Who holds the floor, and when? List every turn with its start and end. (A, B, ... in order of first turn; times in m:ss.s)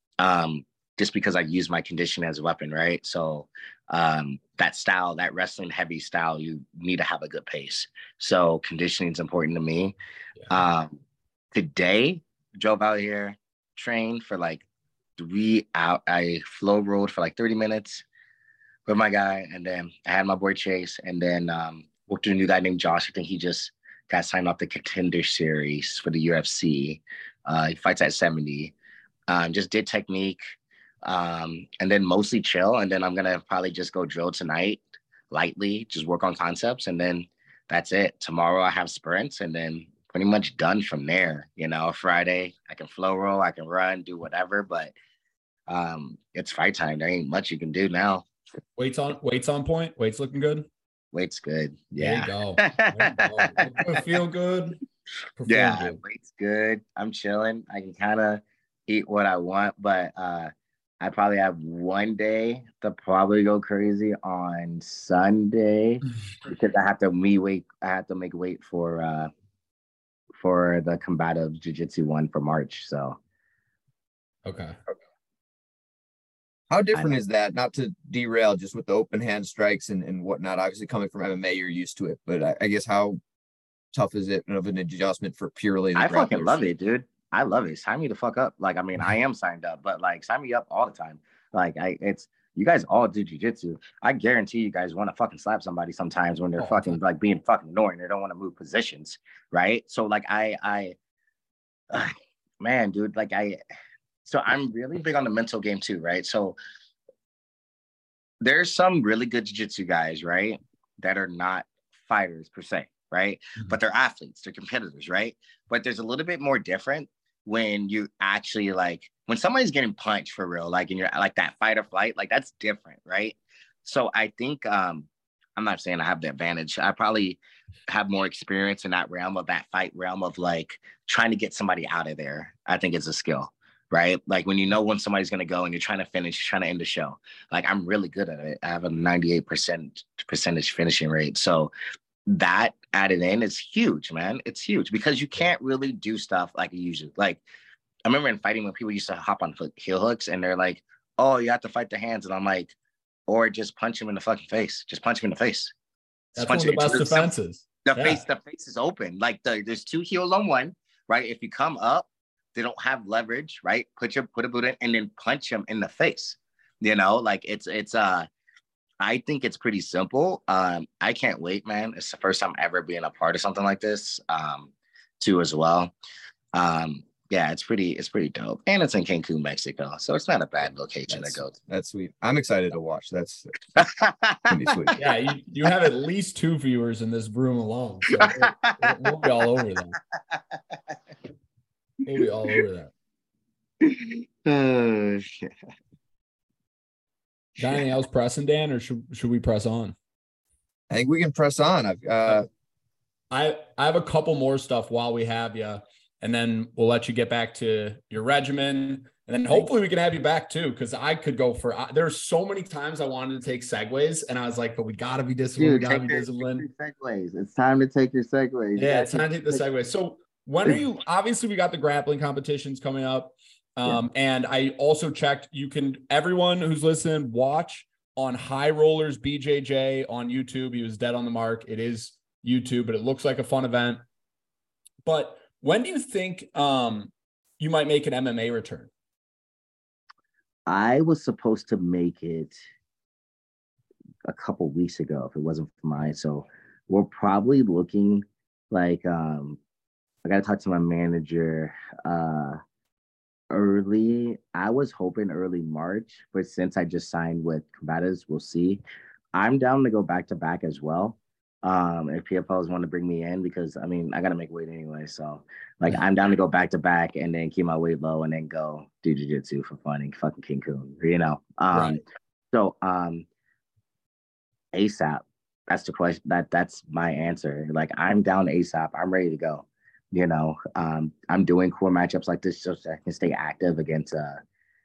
0:00.2-0:10.0 A
0:10.5-0:11.0 A
0:11.5-0:14.6 A
0:15.2-0:18.0 A
0:18.9-0:28.8 A
0:29.3-0:30.4 A
0:31.0-0:44.9 A
0:45.7-0:48.2 A
0:48.8-0:50.7 B
0:51.1-0:54.0 A
0:52.0-0:54.8 B
0:55.4-0:56.0 B
0:55.5-1:09.3 A
1:10.4-1:13.2 A
1:14.4-1:14.8 B
1:16.7-1:23.2 C
1:23.9-1:26.7 C
1:26.0-1:41.0 A
1:36.6-1:37.0 B
1:41.9-1:43.6 A
1:44.2-1:46.6 A
1:48.4-2:21.7 A
2:22.3-2:27.4 A
2:28.1-2:32.8 A
2:33.3-2:35.7 A
2:36.4-2:38.2 B
2:36.4-2:37.3 A
2:37.9-2:48.3 A
2:49.0-2:55.9 A
2:56.5-3:01.6 A
3:01.1-3:03.6 C
3:03.8-3:04.4 A
3:04.5-3:05.0 C
3:05.0-3:10.0 B
3:08.2-3:09.0 A
3:12.0-3:12.9 B
3:13.8-3:15.5 A
3:17.6-3:20.0 B
3:20.9-3:22.5 C
3:23.3-3:36.6 B
3:35.6-3:39.6 A
3:38.8-3:54.0 B
3:55.1-3:58.9 B
4:00.7-4:02.6 A
4:04.2-4:09.6 A
4:10.2-4:12.6 A
4:13.5-4:18.8 A
4:19.3-4:32.0 A
4:31.7-4:32.0 B
4:32.5-4:33.3 A
4:34.7-4:44.4 A